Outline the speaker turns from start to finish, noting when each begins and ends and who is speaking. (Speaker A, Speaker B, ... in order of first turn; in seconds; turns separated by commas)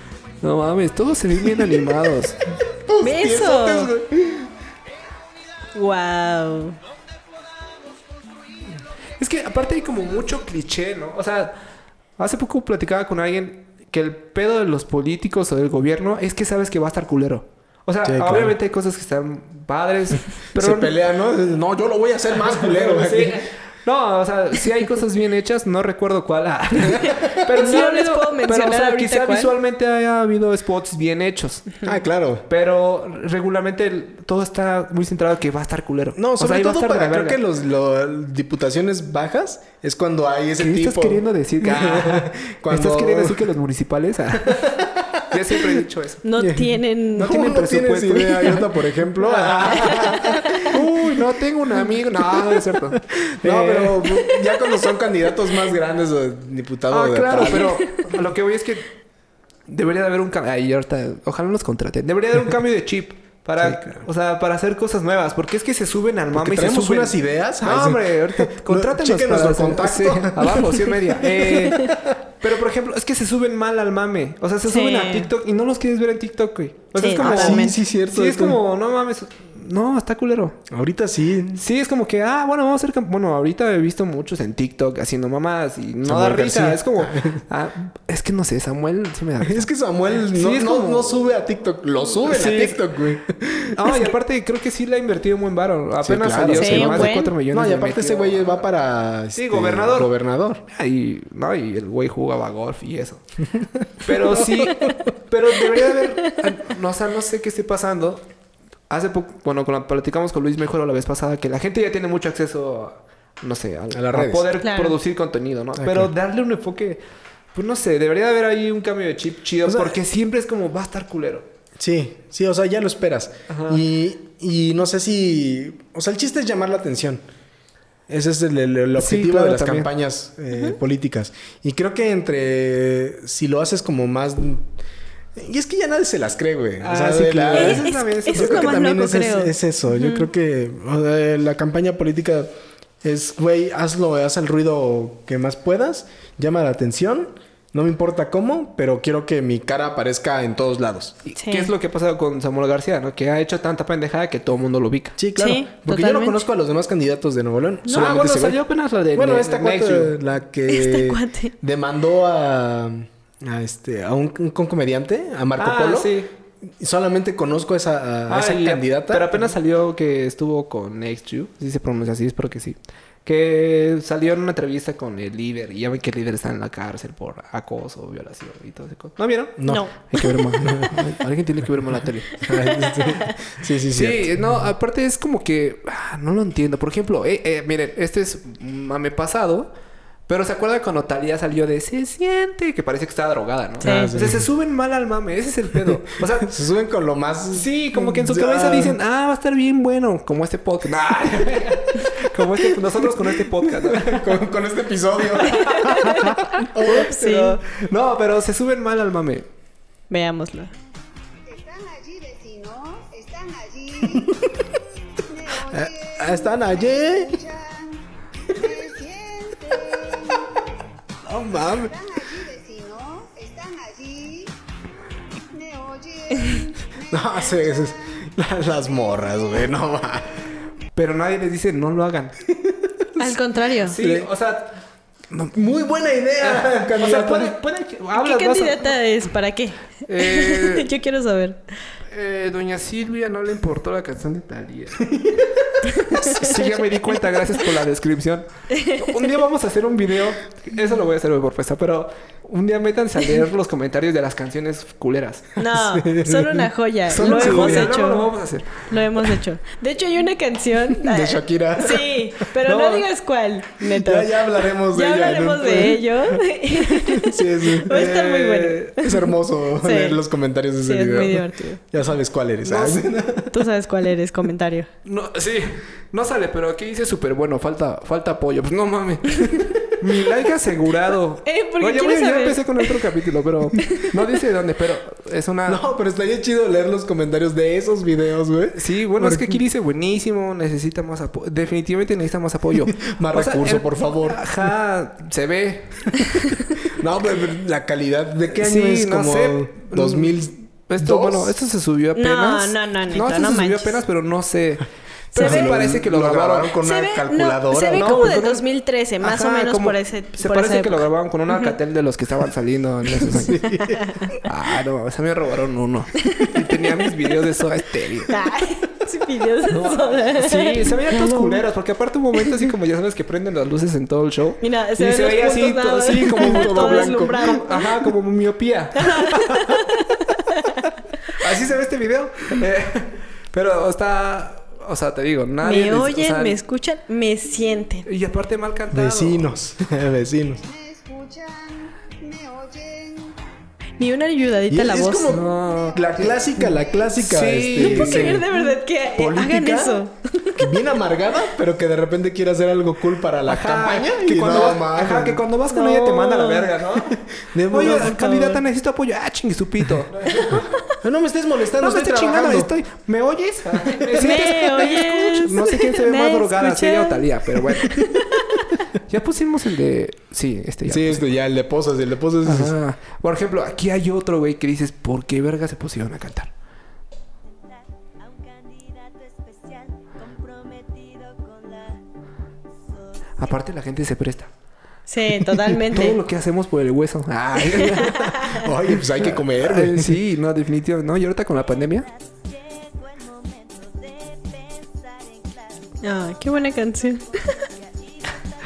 Speaker A: 0.4-2.4, Speaker B: 1.4-2.1, Speaker B: 2.7-4.5, Speaker C: 3.0-3.9, Speaker C: 5.7-6.8, Speaker A: 9.2-11.6, Speaker A: 12.2-20.9, Speaker B: 18.0-18.6, Speaker B: 20.6-23.5, Speaker A: 22.6-31.7, Speaker C: 27.4-29.5, Speaker B: 31.8-32.5, Speaker A: 32.5-37.4, Speaker B: 36.1-43.5, Speaker A: 40.6-44.7, Speaker B: 44.4-45.6, Speaker A: 45.3-46.2, Speaker C: 46.2-47.5, Speaker B: 46.4-51.2, Speaker A: 47.2-48.6, Speaker A: 49.1-54.0, Speaker B: 52.1-57.8, Speaker A: 56.9-58.9, Speaker C: 57.5-58.0, Speaker A: 59.7-80.6, Speaker B: 63.6-64.0, Speaker B: 66.3-72.0, Speaker C: 74.7-75.3, Speaker C: 77.0-77.8, Speaker B: 77.2-78.6, Speaker B: 80.7-81.6, Speaker A: 81.5-91.2, Speaker B: 86.0-87.4, Speaker B: 89.4-94.0, Speaker A: 92.2-92.8, Speaker A: 93.7-98.7, Speaker B: 96.0-100.6, Speaker C: 96.5-97.3, Speaker A: 99.3-100.1, Speaker A: 100.7-103.2, Speaker B: 103.5-105.0, Speaker A: 104.0-108.2, Speaker C: 105.7-106.1, Speaker A: 108.9-117.0, Speaker B: 113.9-114.5, Speaker C: 114.6-115.0, Speaker B: 115.8-116.1, Speaker A: 117.5-121.5, Speaker B: 119.6-120.0, Speaker B: 121.8-127.2, Speaker A: 123.5-123.8, Speaker B: 128.1-134.7, Speaker A: 129.0-129.9, Speaker C: 130.5-130.8, Speaker B: 135.3-142.5, Speaker A: 136.8-138.8, Speaker C: 137.5-140.3, Speaker B: 143.0-151.2, Speaker A: 151.2-155.2, Speaker C: 151.4-151.7, Speaker B: 155.2-158.6, Speaker C: 155.3-156.4, Speaker A: 157.9-160.1, Speaker B: 159.1-166.1, Speaker C: 160.7-161.5, Speaker A: 165.6-166.3, Speaker B: 166.8-169.5, Speaker A: 168.3-182.4, Speaker B: 179.6-181.2, Speaker C: 179.7-179.9, Speaker B: 182.4-184.7, Speaker C: 182.9-183.2, Speaker A: 183.9-189.7, Speaker A: 190.3-196.5, Speaker B: 193.8-194.5, Speaker C: 193.8-194.1, Speaker B: 195.8-199.0, Speaker A: 197.5-204.3, Speaker B: 203.7-207.1, Speaker C: 205.5-207.6, Speaker A: 205.5-206.3, Speaker A: 206.8-209.5, Speaker C: 210.1-210.7, Speaker D: 211.4-220.6, Speaker B: 215.7-217.4, Speaker B: 221.2-221.9, Speaker D: 221.6-224.5, Speaker D: 225.5-227.9, Speaker B: 227.1-230.4, Speaker D: 228.9-229.7, Speaker A: 230.9-232.3, Speaker B: 232.6-233.2, Speaker C: 233.2-233.9, Speaker A: 233.9-234.7, Speaker B: 233.9-234.3, Speaker B: 235.3-237.5, Speaker A: 236.4-238.9, Speaker C: 238.2-241.6, Speaker A: 240.1-240.9, Speaker A: 242.1-245.1, Speaker B: 245.0-245.6, Speaker A: 246.0-255.5, Speaker C: 248.7-249.2, Speaker C: 255.6-270.2, Speaker B: 255.7-258.0, Speaker A: 257.1-258.8, Speaker B: 261.0-262.2, Speaker A: 262.6-263.1, Speaker B: 263.9-268.0, Speaker A: 267.9-268.9, Speaker B: 269.0-273.6, Speaker C: 270.8-271.8, Speaker C: 272.6-274.9, Speaker A: 275.0-285.8, Speaker C: 281.4-283.0, Speaker B: 285.7-289.6, Speaker A: 288.7-296.5, Speaker B: 293.0-294.4, Speaker B: 296.9-301.6, Speaker A: 298.5-306.7, Speaker C: 302.1-304.0, Speaker B: 305.3-308.3, Speaker C: 305.4-305.7, Speaker C: 306.8-311.7, Speaker A: 307.9-308.6, Speaker A: 309.2-313.6, Speaker B: 313.2-314.3, Speaker C: 313.6-314.3, Speaker A: 314.4-318.4, Speaker C: 316.2-316.5, Speaker C: 318.3-321.6, Speaker A: 319.7-329.8, Speaker C: 324.6-327.9, Speaker B: 326.1-327.5, Speaker C: 329.0-330.8, Speaker A: 331.4-336.6, Speaker C: 335.6-338.1, Speaker A: 338.1-339.5, Speaker B: 338.9-340.6, Speaker D: 340.6-343.4, Speaker C: 344.0-345.3, Speaker B: 344.7-350.0, Speaker A: 345.3-348.4, Speaker D: 345.5-346.9, Speaker C: 347.8-350.7, Speaker B: 350.6-355.4, Speaker A: 353.4-357.2, Speaker C: 355.7-356.7, Speaker B: 357.3-358.2, Speaker A: 357.7-360.7, Speaker C: 357.9-358.6, Speaker B: 361.0-362.7, Speaker A: 361.8-368.1, Speaker B: 363.9-364.3, Speaker C: 364.2-368.4, Speaker A: 369.1-371.2, Speaker B: 370.9-372.7, Speaker A: 372.4-376.5, Speaker A: 383.4-384.5, Speaker C: 385.1-386.2, Speaker A: 385.9-388.6, Speaker C: 387.6-388.6, Speaker B: 388.5-390.2, Speaker A: 389.2-392.1, Speaker C: 396.0-397.7